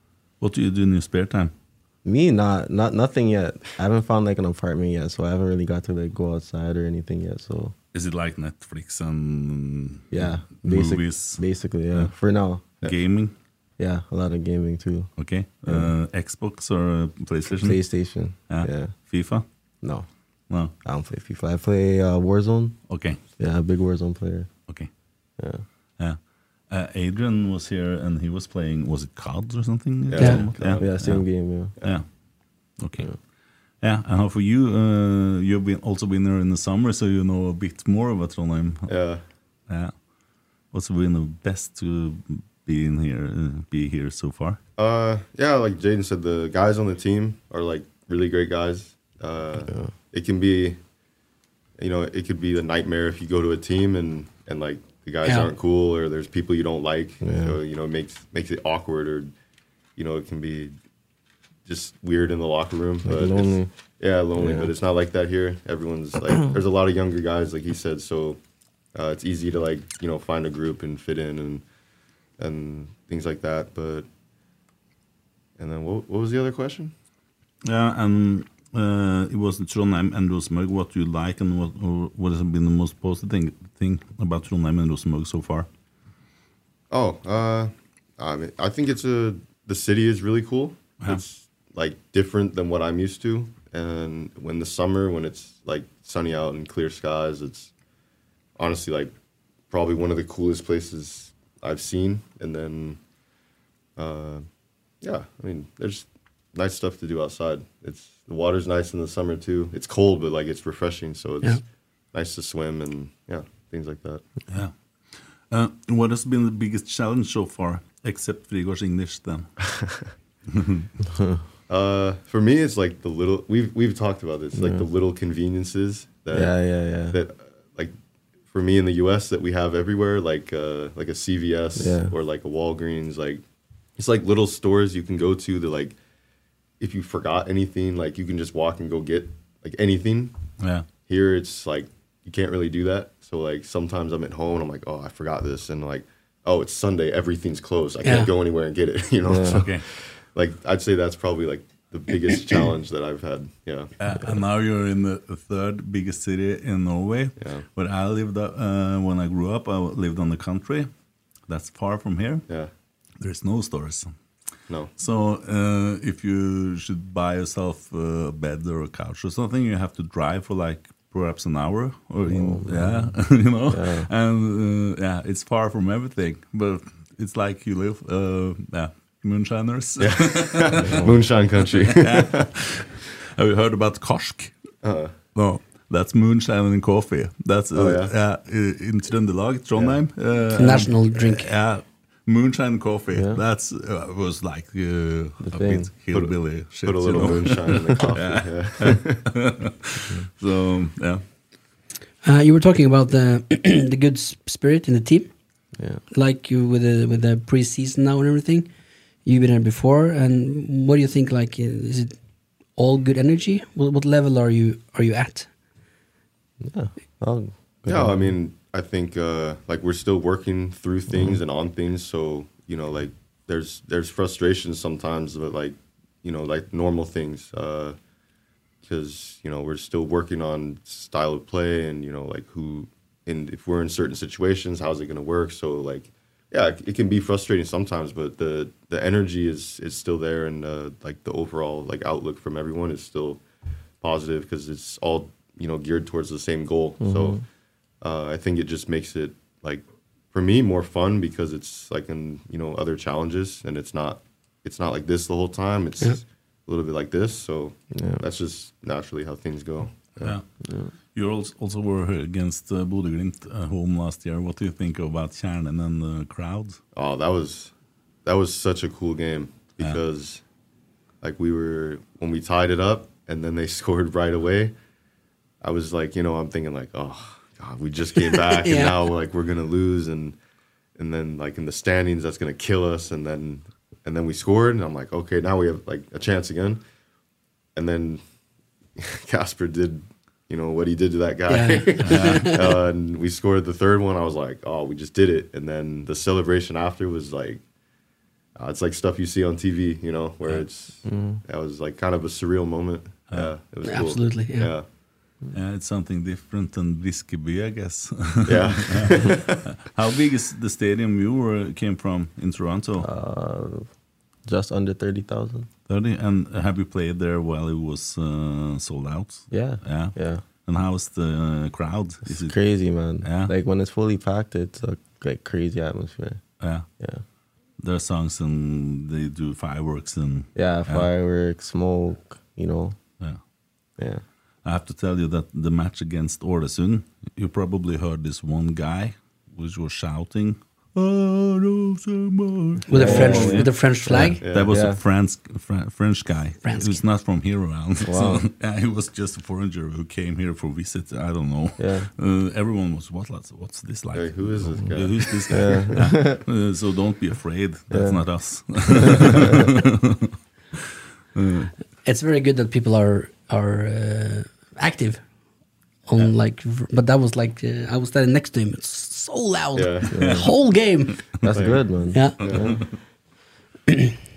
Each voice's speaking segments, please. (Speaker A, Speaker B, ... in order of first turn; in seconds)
Speaker A: 0.4-1.5, 7.9-11.4, 12.8-13.3, 15.2-17.8, 18.5-19.4, 22.9-23.2, 26.7-31.3, 32.8-33.1, 33.8-38.9, 40.7-44.6, 77.6-85.7, 115.5-119.5, 120.5-120.9, 140.6-140.8, 149.5-149.8, 154.0-160.9, 161.5-162.4, 163.2-164.1, 165.0-184.5, 185.3-201.2, 261.1-266.8, 292.0-292.5, 305.5-313.1, 315.9-320.1, 320.6-322.6, 323.2-323.5, 326.6-326.9, 327.8-331.1, 334.6-360.3, 361.4-361.7
Speaker B: 2.0-7.7, 10.1-12.6, 13.8-15.1, 15.7-15.9, 17.5-18.9, 20.8-22.8, 23.4-24.5, 25.4-25.6, 30.6-31.7, 49.6-49.9, 57.2-57.6, 63.0-63.7, 64.3-64.7, 121.1-121.4, 124.5-124.8, 126.3-127.2, 131.8-132.1, 149.2-149.7, 172.2-174.1, 180.8-181.2, 193.1-193.4, 195.4-195.9, 205.8-206.0, 216.6-218.3, 221.1-221.4, 247.0-247.4, 257.9-258.2, 260.6-260.9, 301.0-301.4, 313.0-313.9, 314.5-315.7, 319.5-320.4, 322.2-326.4, 330.5-333.0, 334.0-334.2, 342.9-345.0, 348.0-348.4, 351.8-352.1, 355.5-356.4, 357.9-358.2, 358.9-359.7, 370.1-370.5, 371.4-372.8
Speaker C: 30.1-30.9, 38.9-39.2, 44.8-50.8, 51.8-59.3, 60.0-60.7, 61.6-68.4, 68.9-71.6, 72.4-74.1, 75.6-76.9, 86.9-97.7, 98.6-99.1, 99.7-103.0, 104.0-104.5, 105.0-111.6, 112.1-114.2, 119.7-120.0, 121.7-126.5, 127.1-127.9, 128.5-133.4, 134.0-135.9, 136.8-140.3, 141.1-153.9, 180.0-182.4, 184.8-185.1, 187.7-188.1, 196.1-199.2, 217.9-227.9, 228.8-243.4, 244.0-247.4, 248.0-260.4, 266.9-267.7, 268.2-270.4, 271.2-274.7, 275.6-280.4, 281.0-286.8, 287.7-288.2, 289.0-297.6, 298.6-304.8, 308.4-309.6, 344.4-344.8, 354.1-355.7, 369.7-370.1, 371.5-371.8, 372.4-372.8
Speaker D: 55.2-55.5, 148.0-148.3, 190.5-191.5, 202.2-205.3, 206.1-208.7, 209.2-212.1, 212.8-215.5, 278.3-279.0, 291.5-292.6, 303.9-304.7, 342.9-344.4, 346.6-347.0, 362.0-365.2, 366.1-371.2, 372.1-372.4, 373.9-374.1